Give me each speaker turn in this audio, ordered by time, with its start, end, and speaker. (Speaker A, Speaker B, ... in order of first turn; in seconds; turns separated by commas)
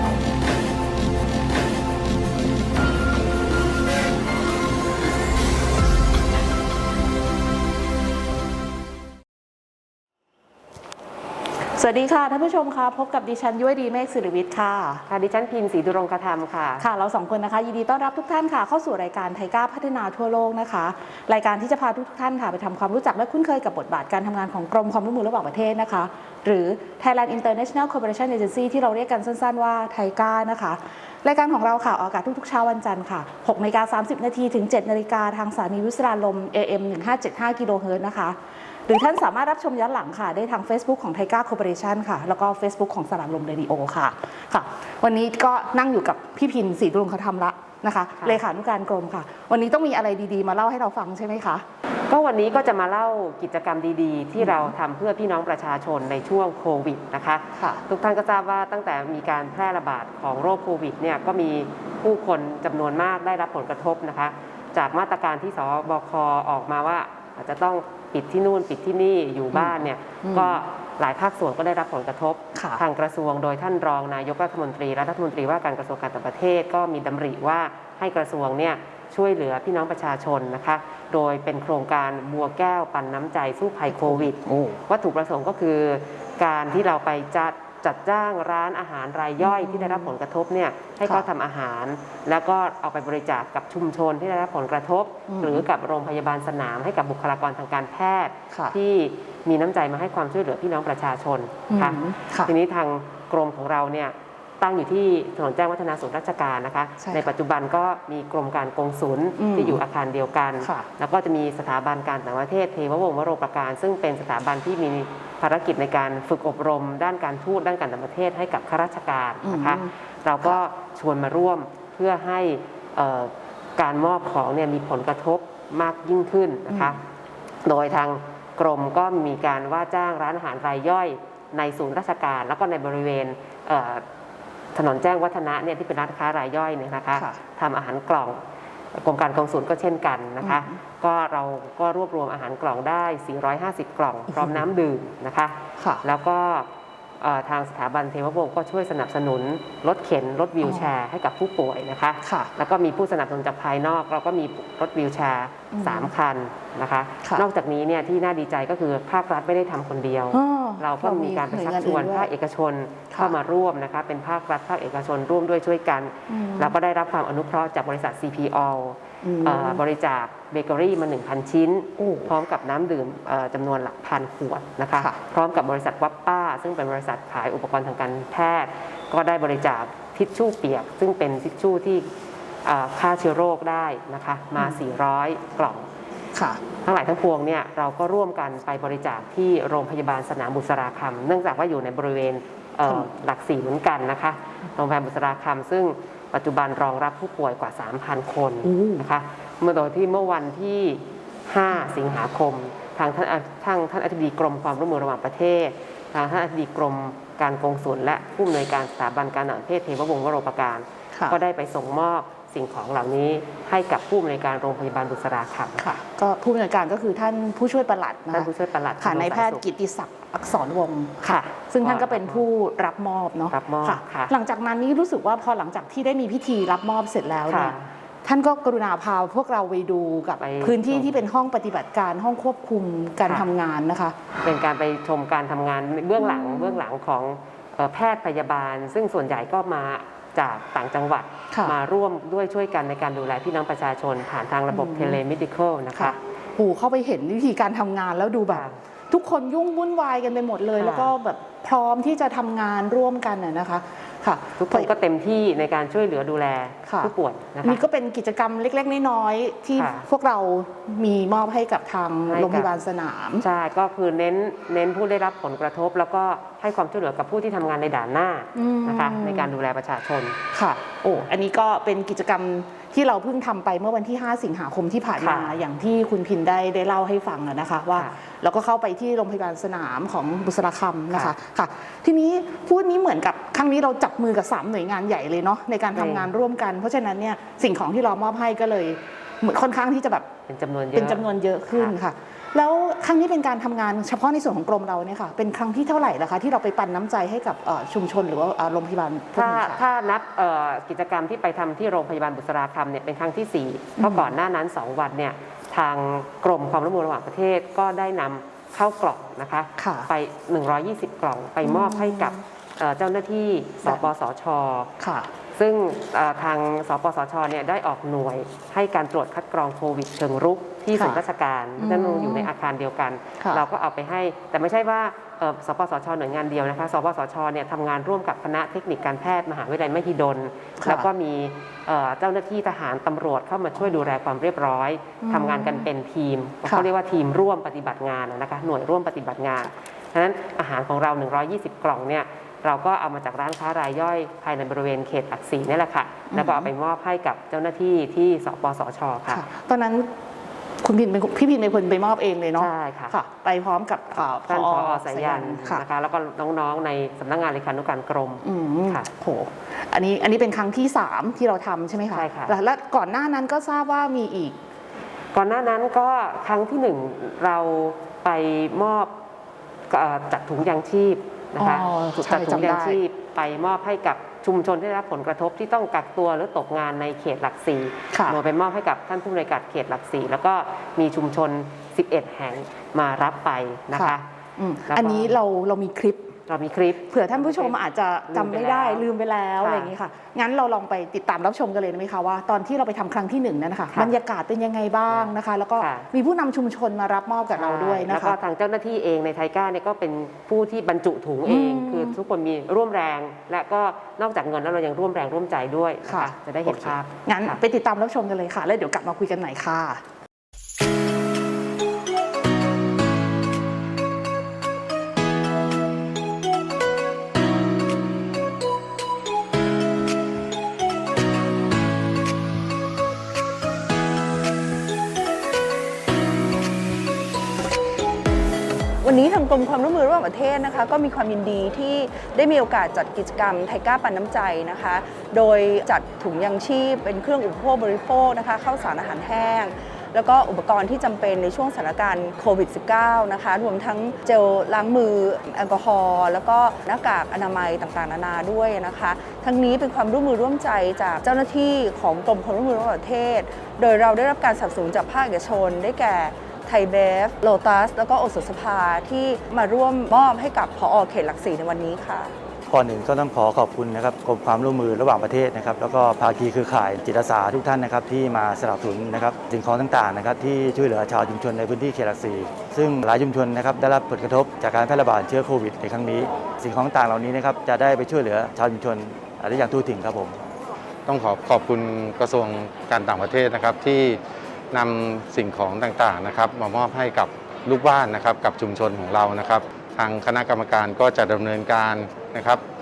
Speaker A: 11.7-15.0, Speaker B: 15.1-16.9, Speaker A: 16.8-51.6, Speaker B: 52.1-127.0, Speaker A: 54.4-54.7, Speaker A: 69.5-70.6, Speaker A: 72.5-72.8, Speaker A: 83.9-84.8, Speaker A: 89.4-90.1, Speaker A: 91.0-91.3, Speaker A: 95.3-95.7, Speaker A: 101.7-102.5, Speaker A: 107.0-107.3, Speaker A: 109.4-109.8, Speaker A: 110.6-110.9, Speaker A: 119.4-119.9, Speaker A: 126.7-127.0, Speaker B: 127.6-134.0, Speaker B: 134.7-138.4, Speaker A: 137.1-137.4, Speaker B: 138.9-182.1, Speaker A: 140.4-140.8, Speaker A: 144.3-144.6, Speaker A: 150.6-150.9, Speaker A: 152.2-152.5, Speaker A: 155.7-156.1, Speaker A: 160.3-162.3, Speaker A: 166.3-166.7, Speaker A: 169.2-169.8, Speaker A: 172.0-172.3, Speaker B: 182.6-185.9, Speaker A: 186.3-186.6, Speaker B: 186.8-215.9, Speaker A: 198.6-199.1, Speaker A: 215.8-234.2, Speaker B: 218.3-219.6, Speaker B: 221.2-222.4, Speaker B: 223.5-224.3, Speaker B: 227.5-227.9, Speaker B: 230.4-231.2, Speaker B: 234.4-246.2, Speaker A: 236.2-236.8, Speaker A: 244.7-245.2, Speaker A: 245.9-254.9, Speaker B: 248.5-248.8, Speaker B: 250.8-251.1, Speaker B: 254.6-257.8, Speaker A: 256.9-263.4, Speaker B: 259.8-260.1, Speaker B: 262.3-262.7, Speaker B: 263.4-270.4, Speaker A: 268.5-269.5, Speaker A: 270.5-290.3, Speaker B: 275.2-275.6, Speaker B: 285.9-286.3, Speaker B: 290.5-291.9, Speaker A: 290.9-299.8, Speaker B: 299.3-314.9, Speaker A: 304.0-304.3, Speaker A: 309.8-310.1, Speaker A: 311.6-312.4, Speaker A: 315.0-315.3, Speaker B: 315.5-349.4, Speaker A: 320.9-321.2, Speaker A: 321.8-322.5, Speaker A: 330.8-331.1, Speaker A: 335.2-335.9, Speaker A: 346.3-346.7, Speaker A: 349.3-350.1, Speaker A: 350.8-355.8, Speaker B: 352.6-353.2, Speaker B: 354.4-359.1, Speaker A: 358.4-364.6, Speaker B: 362.1-362.6, Speaker B: 365.3-369.2, Speaker B: 369.9-384.2, Speaker A: 371.6-373.0, Speaker A: 378.1-378.4, Speaker A: 383.9-386.3, Speaker B: 384.9-385.4, Speaker B: 386.5-389.1, Speaker A: 387.1-398.4, Speaker B: 389.6-389.9, Speaker B: 395.1-396.1, Speaker B: 397.5-407.6, Speaker A: 401.4-402.2, Speaker A: 406.0-410.0, Speaker C: 429.0-462.3, Speaker D: 462.7-480.4, Speaker E: 481.1-484.2, Speaker E: 484.7-492.6